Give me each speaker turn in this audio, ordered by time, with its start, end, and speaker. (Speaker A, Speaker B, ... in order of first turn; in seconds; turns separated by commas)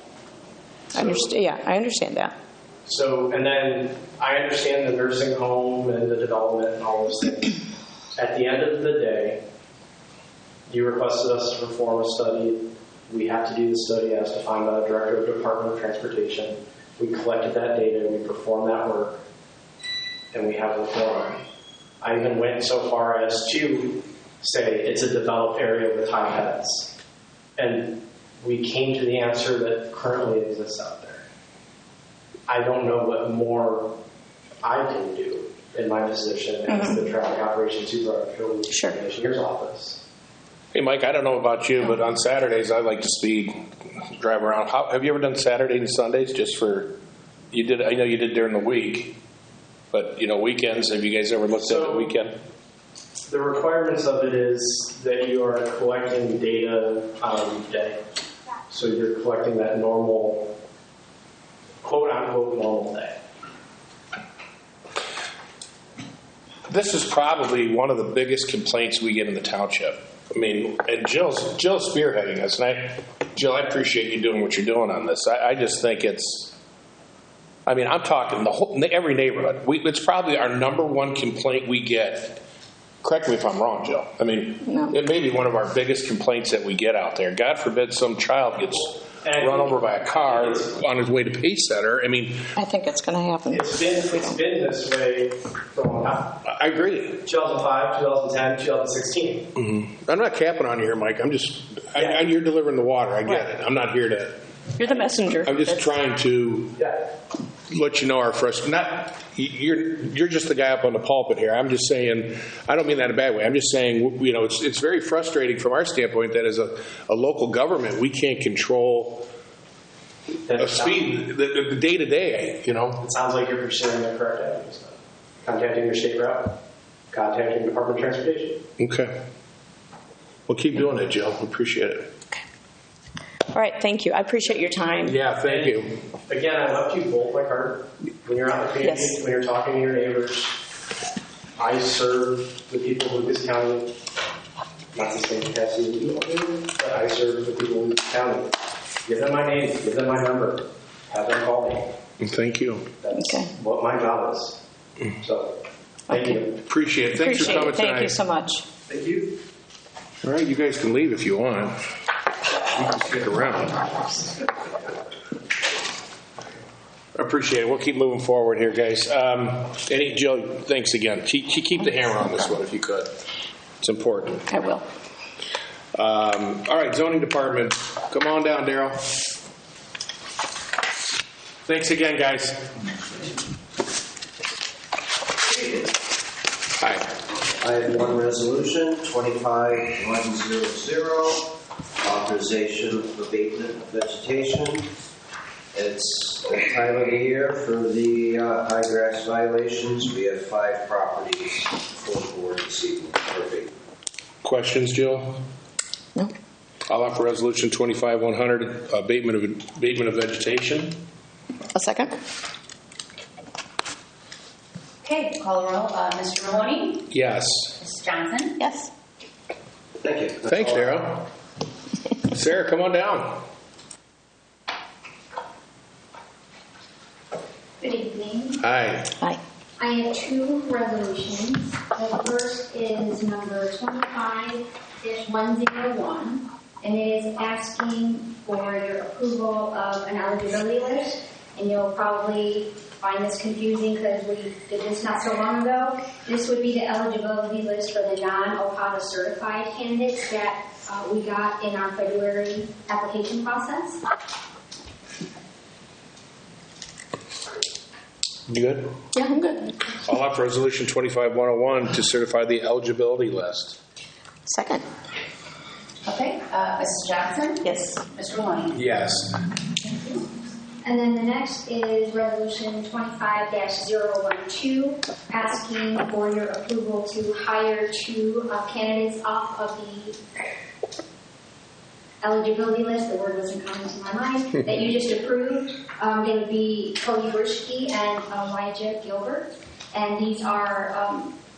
Speaker A: 0.9-1.3, Speaker B: 0.9-2.4, Speaker A: 2.9-7.6, Speaker A: 8.2-9.4, Speaker A: 10.7-19.2, Speaker A: 20.3-21.4, Speaker A: 22.0-26.9, Speaker A: 27.6-31.2, Speaker A: 32.5-33.9, Speaker A: 34.6-40.0, Speaker B: 36.7-37.0, Speaker B: 38.7-39.0, Speaker C: 40.7-46.9, Speaker C: 47.5-49.1, Speaker C: 49.9-52.4, Speaker A: 51.6-52.1, Speaker A: 53.3-58.0, Speaker A: 58.7-60.5, Speaker A: 61.8-63.2, Speaker C: 66.7-76.5, Speaker C: 77.7-82.4, Speaker C: 83.0-92.5, Speaker B: 84.6-84.9, Speaker A: 89.2-90.8, Speaker B: 92.5-94.4, Speaker A: 93.5-96.4, Speaker C: 96.5-97.2, Speaker A: 97.2-99.5, Speaker C: 99.6-104.3, Speaker B: 104.8-105.9, Speaker C: 105.4-106.8, Speaker C: 107.7-119.2, Speaker A: 120.5-121.1, Speaker C: 120.6-123.0, Speaker A: 123.0-126.6, Speaker A: 127.1-128.6, Speaker C: 128.8-129.2, Speaker C: 130.5-132.1, Speaker B: 133.5-135.2, Speaker C: 135.0-135.9, Speaker A: 135.5-140.6, Speaker B: 138.8-139.2, Speaker A: 141.6-143.9, Speaker A: 144.9-148.5, Speaker A: 149.1-151.9, Speaker C: 152.2-152.9, Speaker A: 153.0-154.6, Speaker B: 153.2-153.5, Speaker A: 155.2-155.6, Speaker A: 156.1-156.6, Speaker B: 156.1-156.4, Speaker C: 156.7-158.2, Speaker B: 157.1-158.6, Speaker A: 158.9-159.3, Speaker C: 160.2-161.8, Speaker C: 162.7-163.8, Speaker C: 167.2-173.1, Speaker C: 173.8-174.5, Speaker B: 174.5-174.8, Speaker C: 175.9-179.2, Speaker C: 181.7-182.6, Speaker C: 186.8-187.1, Speaker D: 187.6-191.5, Speaker D: 192.0-194.9, Speaker D: 195.7-203.7, Speaker C: 204.4-205.4, Speaker C: 206.9-211.0, Speaker B: 211.7-212.1, Speaker E: 215.0-217.0, Speaker C: 217.1-217.8, Speaker E: 217.8-218.6, Speaker B: 218.6-218.9, Speaker D: 220.0-221.0, Speaker C: 220.5-221.2, Speaker C: 222.3-223.4, Speaker F: 227.8-228.6, Speaker C: 228.6-229.1, Speaker F: 229.8-254.0, Speaker C: 258.5-258.9, Speaker B: 259.1-260.0, Speaker C: 260.1-263.8, Speaker B: 264.5-264.8, Speaker E: 266.1-268.8, Speaker C: 268.7-269.4, Speaker E: 269.8-270.3, Speaker F: 270.8-280.2, Speaker F: 282.2-291.3